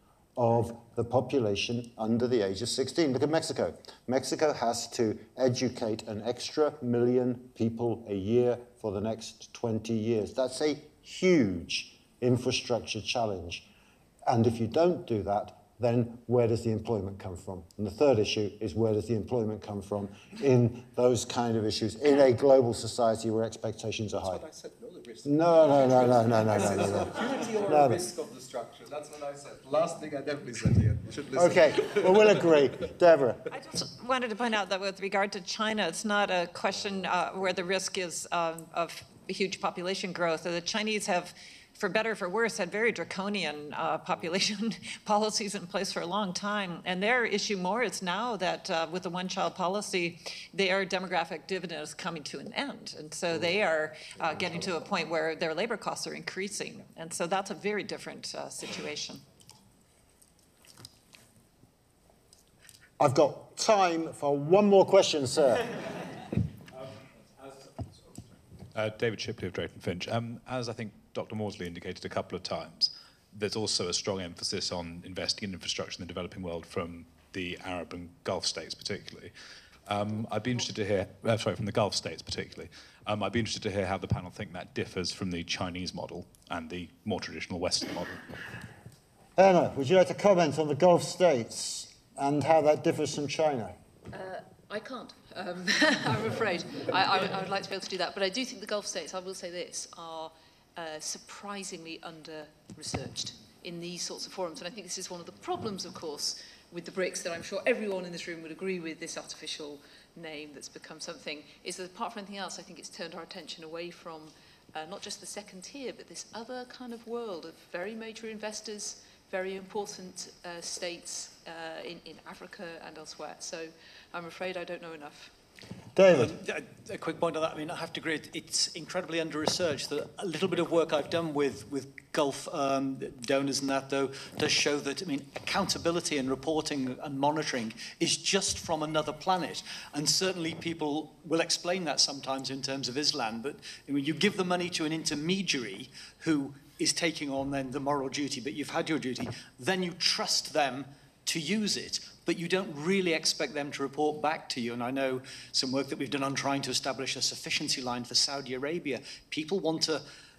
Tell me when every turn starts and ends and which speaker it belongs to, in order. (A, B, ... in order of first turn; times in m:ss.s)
0:00.4-0:13.6 A
0:14.2-0:24.4 A
0:24.2-0:32.5 B
0:25.2-0:28.0 A
0:31.3-0:33.4 A
0:33.5-0:59.2 C
0:54.4-0:54.7 A
1:03.0-1:05.7 A
1:08.7-1:19.3 D
1:19.8-1:28.2 D
1:29.4-1:33.8 A
1:34.1-2:05.3 E
2:05.9-2:06.4 A
2:06.1-2:40.0 F